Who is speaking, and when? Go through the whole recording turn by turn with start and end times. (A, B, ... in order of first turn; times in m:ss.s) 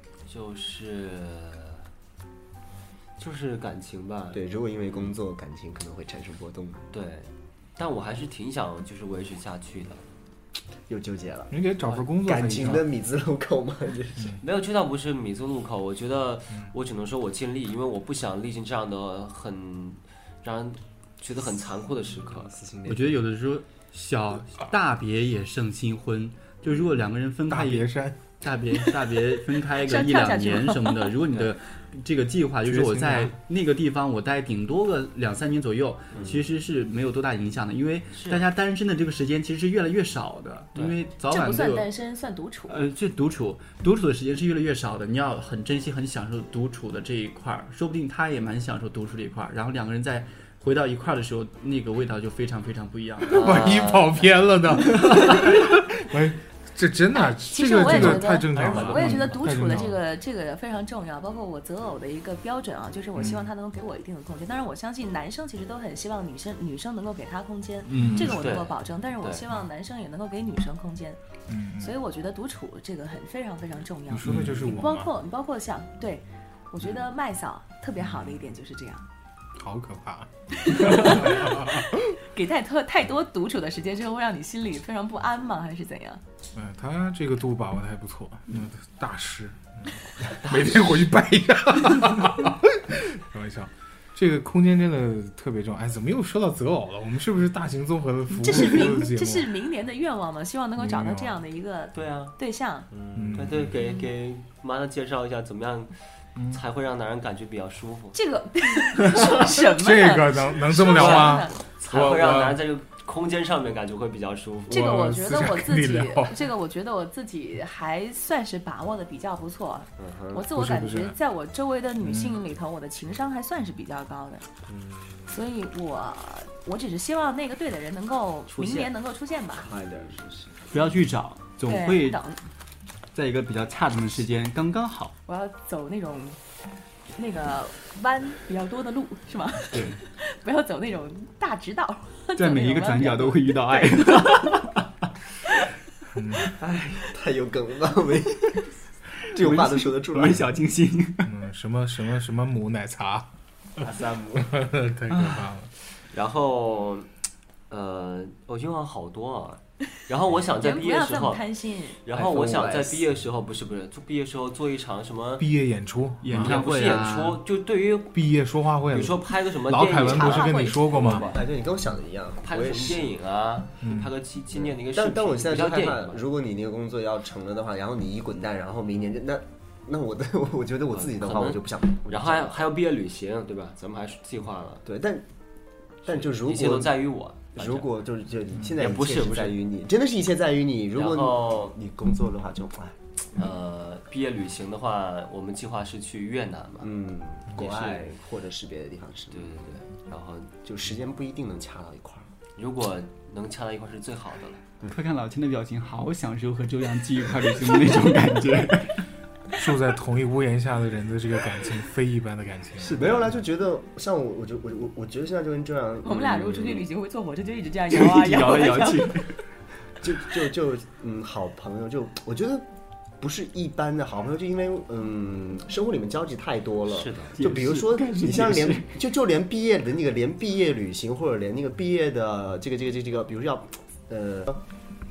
0:00.3-0:01.8 A
0:03.2-0:05.2 A
0:04.3-0:06.8 B
0:06.9-0:10.0 A
0:10.9-0:11.5 B
0:11.5-0:12.9 C
0:12.2-0:14.4 B
0:14.4-0:22.6 A
0:22.3-0:23.2 B
0:22.9-0:41.9 D
0:27.5-0:28.3 C
0:29.8-0:31.1 E
0:32.6-0:33.4 C
0:38.1-0:38.4 A
0:41.3-0:42.8 E
0:42.7-0:53.6 D
0:53.3-0:54.3 A
0:53.4-1:00.0 C
0:55.0-0:55.6 D
0:57.1-1:11.2 E
0:58.5-0:59.3 A
1:07.9-1:08.3 D
1:07.9-1:08.3 C
1:08.3-1:09.4 A
1:11.5-1:12.0 C
1:11.8-1:19.1 E
1:14.1-1:15.1 C
1:14.3-1:14.7 D
1:19.6-1:22.0 C
1:20.6-1:26.2 E
1:26.6-1:39.5 C
1:30.4-1:31.0 A
1:38.3-1:42.9 E
1:40.8-1:41.4 C
1:41.9-1:42.4 A
1:42.9-1:45.9 A
1:43.1-1:43.8 C
1:46.5-1:48.2 A
1:48.1-1:51.6 E
1:49.2-1:52.6 C
1:50.9-1:55.0 A
1:54.7-1:56.5 C
1:54.7-2:04.4 E
2:00.0-2:00.3 A
2:00.5-2:01.2 C
2:02.0-2:02.4 C
2:04.7-2:05.0 B
2:05.3-2:09.7 E
2:08.5-2:08.9 A
2:09.6-2:10.5 B
2:10.7-2:12.2 D
2:11.7-2:12.4 E
2:13.1-2:15.1 D
2:15.3-2:16.4 E
2:17.2-2:24.0 E
2:19.7-2:20.0 D
2:22.4-2:24.9 D
2:26.1-2:26.5 C
2:26.6-2:28.7 B
2:29.2-2:30.5 B
2:29.3-2:31.3 D
2:31.2-2:33.3 C
2:33.8-2:34.6 B
2:33.8-2:35.7 C
2:35.1-2:35.5 D
2:36.1-2:37.1 A
2:37.7-2:41.4 A
2:40.6-2:42.0 E
2:42.0-2:45.5 A
2:42.1-2:43.1 B
2:45.4-2:46.6 C
2:46.2-2:47.4 D
2:46.3-2:48.2 A
2:48.1-2:51.2 C
2:48.9-2:51.5 A
2:49.9-2:51.4 E
2:51.2-2:53.1 B
2:52.4-2:56.2 A
2:53.8-2:54.1 C
2:54.6-3:02.5 B
3:00.9-3:04.8 A
3:04.8-3:05.2 B
3:06.0-3:13.0 B
3:06.1-3:08.0 A
3:08.8-3:09.6 A
3:10.9-3:11.8 A
3:13.4-3:16.9 A
3:16.8-3:19.6 B
3:17.6-3:18.0 A
3:19.3-3:20.5 A
3:20.6-3:22.3 B
3:22.6-3:24.6 A
3:24.9-3:29.1 D
3:29.6-3:33.4 C
3:32.8-3:36.9 B
3:36.0-3:39.2 E
3:37.9-3:39.4 D
3:40.0-3:42.7 B
3:43.2-3:54.6 B
3:46.9-3:47.4 A
3:47.4-3:48.9 D